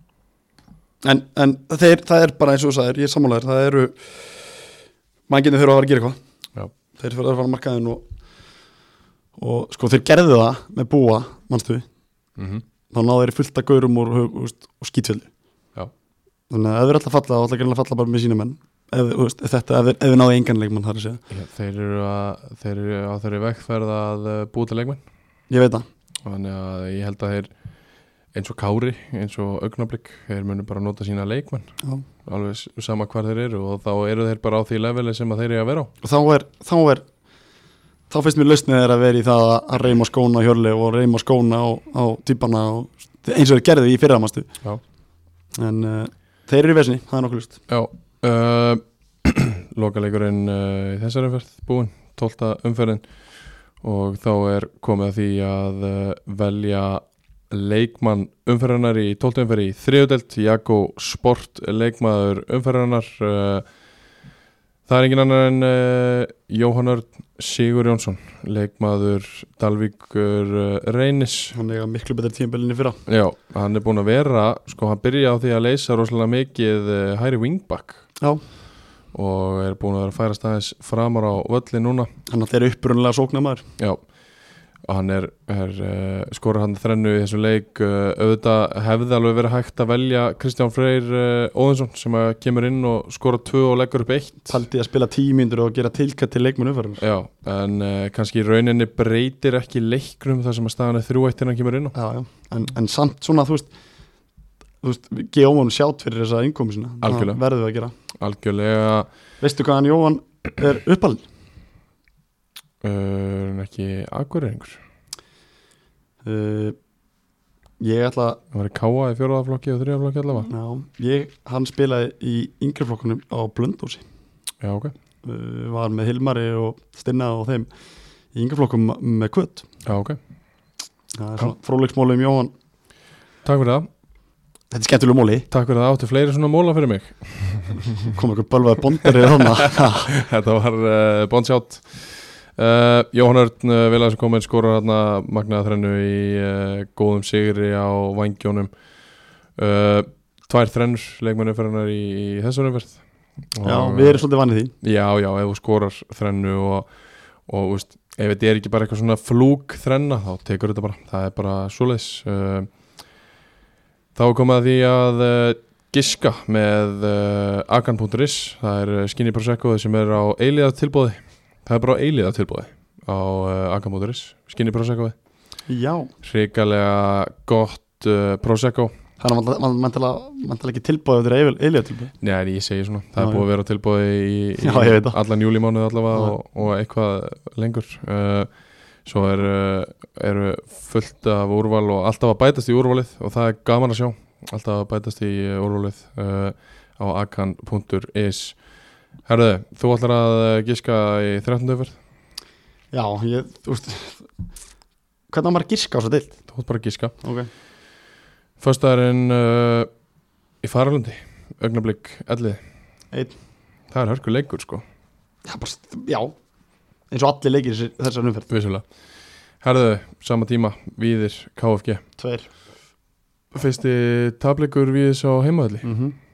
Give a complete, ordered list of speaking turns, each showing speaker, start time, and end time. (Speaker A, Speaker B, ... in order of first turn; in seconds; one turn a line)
Speaker A: 1.0-4.6
Speaker A: 5.3-6.2
Speaker A: 7.0-8.1
Speaker A: 9.4-11.9
Speaker B: 12.4-12.6
Speaker A: 12.9-15.3
Speaker A: 16.5-21.2
Speaker B: 21.3-25.0
Speaker A: 25.5-25.9
Speaker B: 26.2-27.5
Speaker B: 28.3-31.7
Speaker B: 32.3-35.9
Speaker A: 36.0-37.0
Speaker A: 38.1-44.5
Speaker A: 45.6-47.6
Speaker B: 47.7-53.0
Speaker B: 53.8-63.7
Speaker B: 64.9-71.6
Speaker A: 71.5-73.0
Speaker B: 73.1-78.0
Speaker B: 79.1-82.1
Speaker A: 82.3-83.7
Speaker B: 83.8-84.0
Speaker B: 84.8-94.6
Speaker A: 94.5-97.0
Speaker B: 97.0-102.0
Speaker A: 102.0-103.7
Speaker A: 104.8-107.9
Speaker B: 107.0-107.4
Speaker B: 108.2-109.1
Speaker A: 109.4-111.2
Speaker B: 112.8-114.8
Speaker A: 116.2-116.8
Speaker A: 117.8-118.4
Speaker B: 118.5-120.5
Speaker A: 120.5-124.0
Speaker B: 124.6-124.9
Speaker A: 125.2-127.7
Speaker A: 128.3-129.7
Speaker B: 129.8-130.2
Speaker A: 131.2-132.5
Speaker B: 133.4-133.9
Speaker A: 134.7-135.5
Speaker B: 135.5-138.1
Speaker A: 138.0-140.1
Speaker B: 139.2-148.7
Speaker B: 149.6-153.0
Speaker B: 153.5-154.2
Speaker A: 153.6-154.7
Speaker B: 154.8-156.9
Speaker B: 157.5-162.7
Speaker B: 164.2-175.2
Speaker A: 175.7-176.1
Speaker B: 176.2-178.9
Speaker A: 179.2-182.1
Speaker B: 182.2-188.5
Speaker A: 183.2-183.4
Speaker A: 184.6-185.2
Speaker B: 189.1-198.6
Speaker B: 199.2-202.0
Speaker A: 202.9-204.3
Speaker A: 205.3-206.4
Speaker B: 206.5-207.1
Speaker A: 207.2-207.5
Speaker B: 208.6-209.9
Speaker B: 210.6-212.6
Speaker B: 213.9-214.8
Speaker A: 215.5-216.3
Speaker A: 217.1-218.5
Speaker B: 218.5-218.8
Speaker B: 219.6-222.0
Speaker A: 222.2-222.5
Speaker B: 223.5-225.9
Speaker A: 225.8-226.2